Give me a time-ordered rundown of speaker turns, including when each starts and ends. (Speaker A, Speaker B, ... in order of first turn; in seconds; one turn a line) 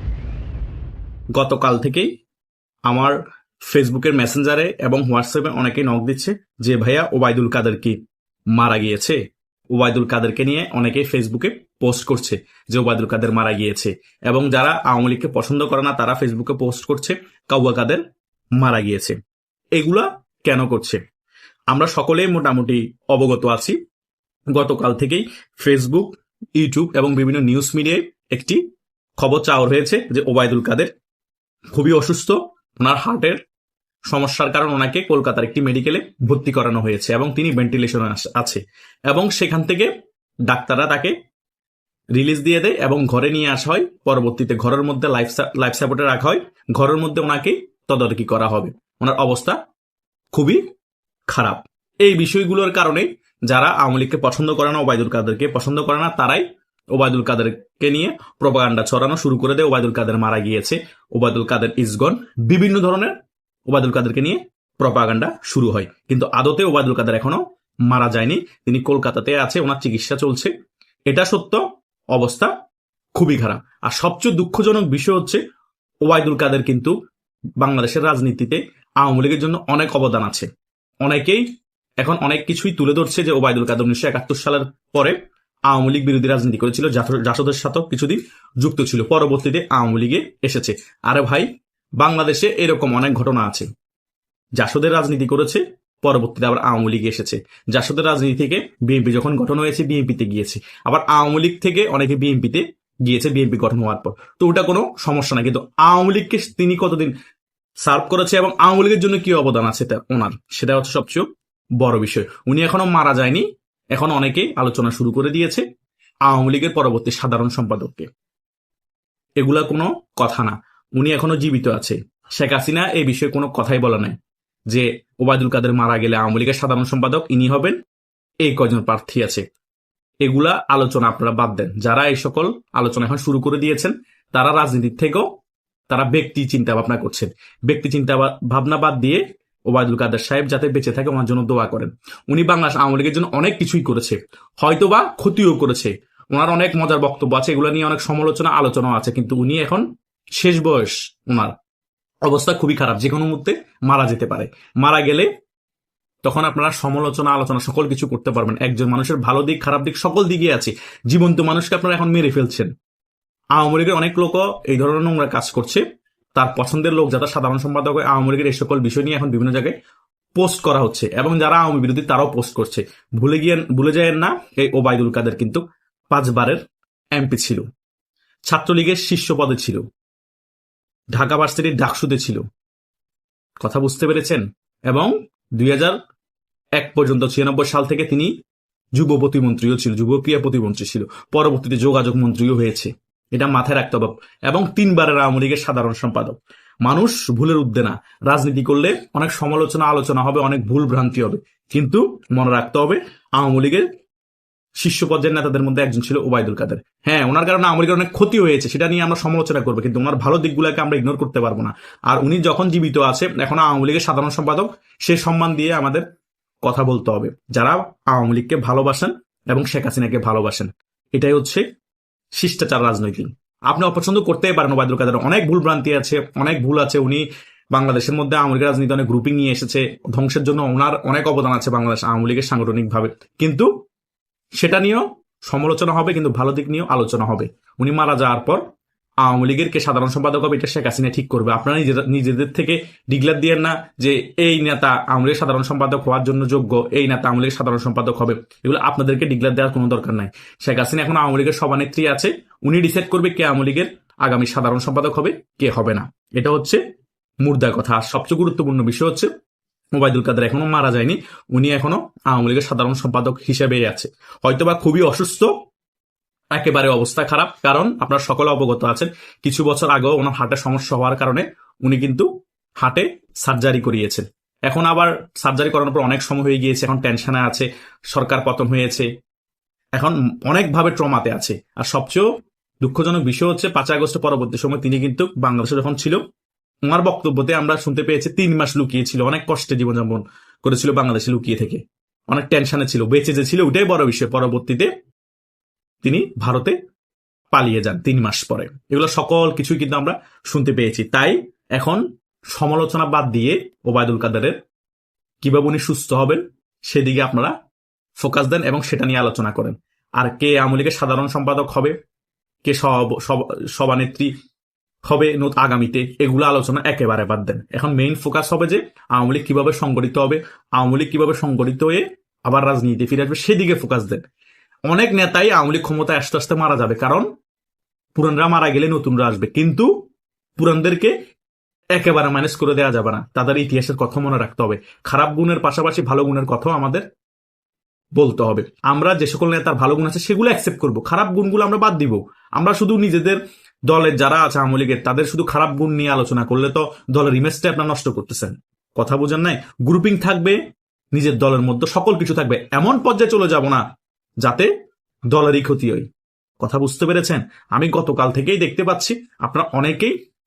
Speaker A: 1.4-2.1
Speaker A: 2.9-8.0
Speaker A: 8.5-9.2
Speaker A: 9.7-18.0
Speaker A: 18.6-19.2
Speaker A: 19.8-21.0
Speaker A: 21.7-23.7
Speaker A: 24.5-28.6
Speaker A: 29.2-30.9
Speaker A: 31.7-33.4
Speaker A: 34.1-39.9
Speaker A: 40.5-41.1
Speaker A: 42.1-49.6
Speaker A: 50.3-50.6
Speaker A: 51.3-63.1
Speaker A: 63.7-70.5
Speaker A: 71.1-71.6
Speaker A: 72.1-72.5
Speaker A: 73.2-75.4
Speaker A: 76.0-76.9
Speaker A: 77.6-80.5
Speaker A: 81.0-81.4
Speaker A: 82.0-85.2
Speaker A: 85.7-93.7
Speaker A: 94.6-107.1
Speaker A: 107.8-111.3
Speaker A: 111.8-115.6
Speaker A: 116.3-118.1
Speaker A: 119.4-124.2
Speaker A: 124.7-127.8
Speaker A: 128.4-129.4
Speaker A: 130.2-135.2
Speaker A: 135.9-149.8
Speaker A: 150.4-151.5
Speaker A: 152.2-155.3
Speaker A: 156.2-162.7
Speaker A: 163.6-165.8
Speaker A: 166.3-169.7
Speaker A: 170.3-176.6
Speaker A: 177.2-177.6
Speaker A: 178.5-179.8
Speaker A: 181.1-182.4
Speaker A: 183.6-186.0
Speaker A: 186.8-188.3
Speaker A: 188.9-203.8
Speaker A: 204.8-216.0
Speaker A: 216.6-221.6
Speaker A: 222.4-233.7
Speaker A: 234.6-238.6
Speaker A: 239.2-256.8
Speaker A: 257.4-259.3
Speaker A: 259.9-265.5
Speaker A: 266.5-272.3
Speaker A: 272.8-279.1
Speaker A: 280.0-282.3
Speaker A: 282.8-286.2
Speaker A: 286.9-294.9
Speaker A: 296.0-296.8
Speaker A: 297.5-304.6
Speaker A: 305.4-307.5
Speaker A: 308.2-311.9
Speaker A: 312.6-314.3
Speaker A: 315.1-324.2
Speaker A: 324.9-327.3
Speaker A: 328.1-329.9
Speaker A: 330.6-331.1
Speaker A: 331.9-337.0
Speaker A: 338.2-350.6
Speaker A: 351.1-353.8
Speaker A: 354.4-354.7
Speaker A: 355.3-356.1
Speaker A: 356.6-360.1